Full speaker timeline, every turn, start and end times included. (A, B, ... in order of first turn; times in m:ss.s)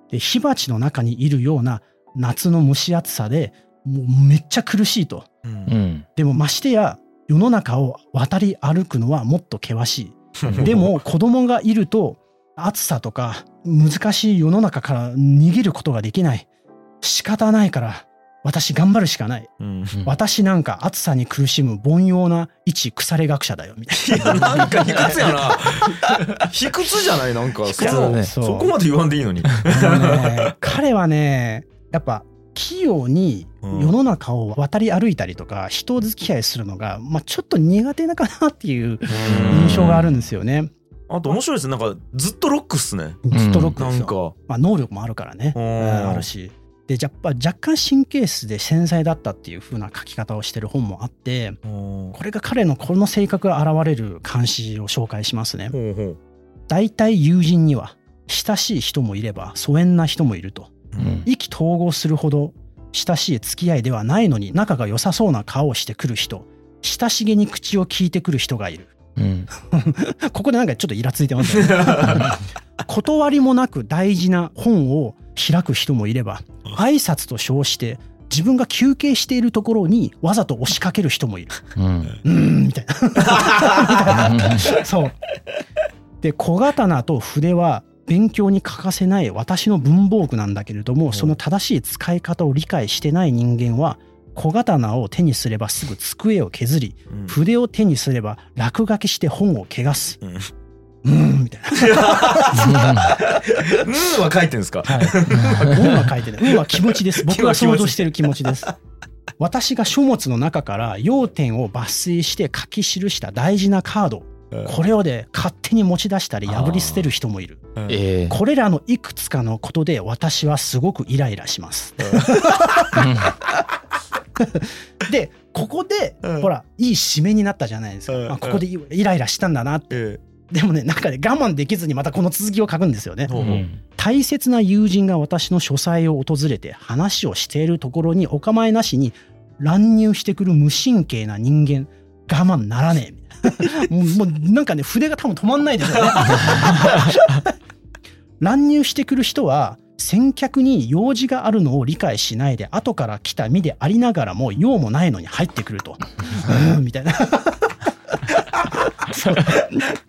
0:00.1-0:05.3 A
0:05.4-0:05.7 B
0:05.7-0:06.1 C
0:06.2-0:16.5 A
0:10.4-0:11.0 B
0:17.0-0:19.5 A
0:19.6-0:20.0 B
0:20.0-0:25.2 A
0:24.0-0:30.6 B
0:27.6-0:28.7 A
0:27.8-0:28.3 C
0:29.6-0:40.7 A
0:33.6-0:34.0 B
0:39.1-0:40.2 B
0:39.5-0:39.9 C
0:41.1-0:43.2 B
0:43.2-0:51.6 A
0:43.3-0:43.8 C
0:43.8-0:44.3 B
0:45.6-0:46.3 B
0:51.6-0:52.2 B
0:52.1-0:55.8 A
0:55.7-0:56.2 B
0:56.7-1:00.7 A
1:00.9-1:01.2 B
1:01.0-1:01.3 C
1:01.2-1:08.9 A
1:09.2-1:09.5 C
1:09.6-1:21.7 A
1:11.5-1:12.2 B
1:21.8-1:22.2 C
1:22.2-1:25.2 A
1:23.3-1:24.2 B
1:24.1-1:24.6 C
1:26.2-1:40.2 A
1:37.1-1:37.4 B
1:40.2-1:40.5 B
1:41.0-1:43.3 A
1:41.8-1:48.7 B
1:42.6-1:43.1 C
1:44.9-1:48.7 A
1:49.4-1:57.7 A
1:56.5-1:57.1 C
1:57.9-1:58.4 C
1:58.3-2:03.3 A
2:02.0-2:03.0 B
2:04.4-2:09.9 A
2:06.2-2:06.5 B
2:08.1-2:08.6 B
2:09.9-2:10.2 B
2:10.5-2:13.4 A
2:13.3-2:13.7 B
2:13.4-2:13.8 C
2:14.0-2:27.5 A
2:26.2-2:26.9 B
2:28.4-2:38.2 A
2:38.8-2:39.9 A